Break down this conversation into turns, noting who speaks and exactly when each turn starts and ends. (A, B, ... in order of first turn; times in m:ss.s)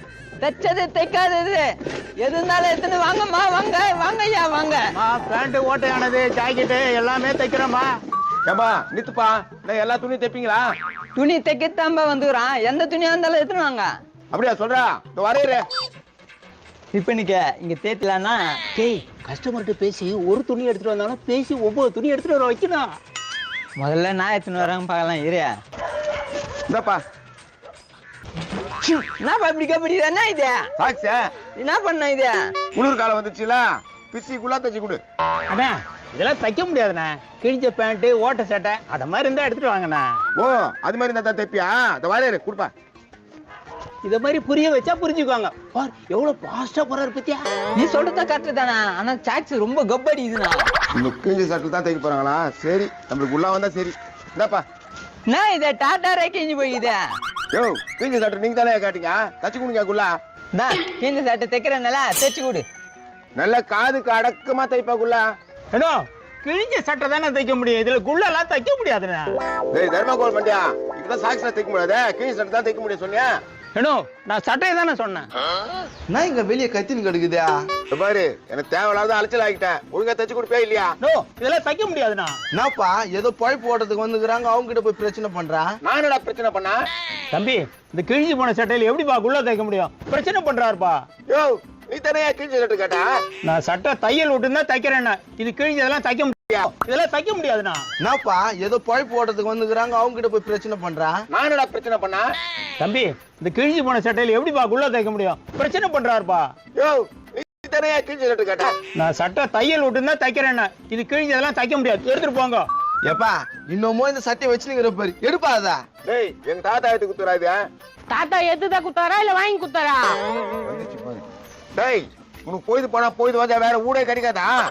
0:00.4-0:01.6 A
0:02.2-0:04.9 A
0:05.0-0:07.9 B
0:08.5-0:10.7 C
0:11.2-0:13.9 A
0:14.3-0:15.6 C
0:16.9-0:19.1 A
0:19.2-0:22.9 B
0:23.8-0:25.5 A
0:26.7-0:27.0 C
0:28.8-0:30.6 A
0:30.8-0:31.2 C
0:31.6-0:32.4 A
0:32.8-0:35.0 C
0:35.5-0:40.1 B
0:40.4-0:42.7 C
0:44.0-0:47.4 B
0:47.8-0:50.7 A
0:51.0-0:54.6 C
0:55.3-0:57.0 A
0:57.5-1:00.2 C
1:00.5-1:02.6 A
1:03.4-1:05.2 C
1:05.7-1:09.3 B
1:09.7-1:13.3 C
1:13.8-1:15.3 B
1:16.1-1:17.6 D
1:17.9-1:21.0 C
1:21.0-1:22.4 B
1:22.5-1:25.7 D
1:25.8-1:26.8 C
1:27.3-1:31.0 B
1:31.3-1:33.0 C
1:33.4-1:37.8 B
1:38.0-1:41.2 D
1:41.3-1:42.3 C
1:42.8-1:46.5 B
1:46.8-1:48.7 C
1:49.0-1:52.7 B
1:53.1-1:55.8 D
1:56.0-1:57.6 C
1:58.1-2:00.1 E
2:00.6-2:01.2 C
2:01.8-2:04.5 C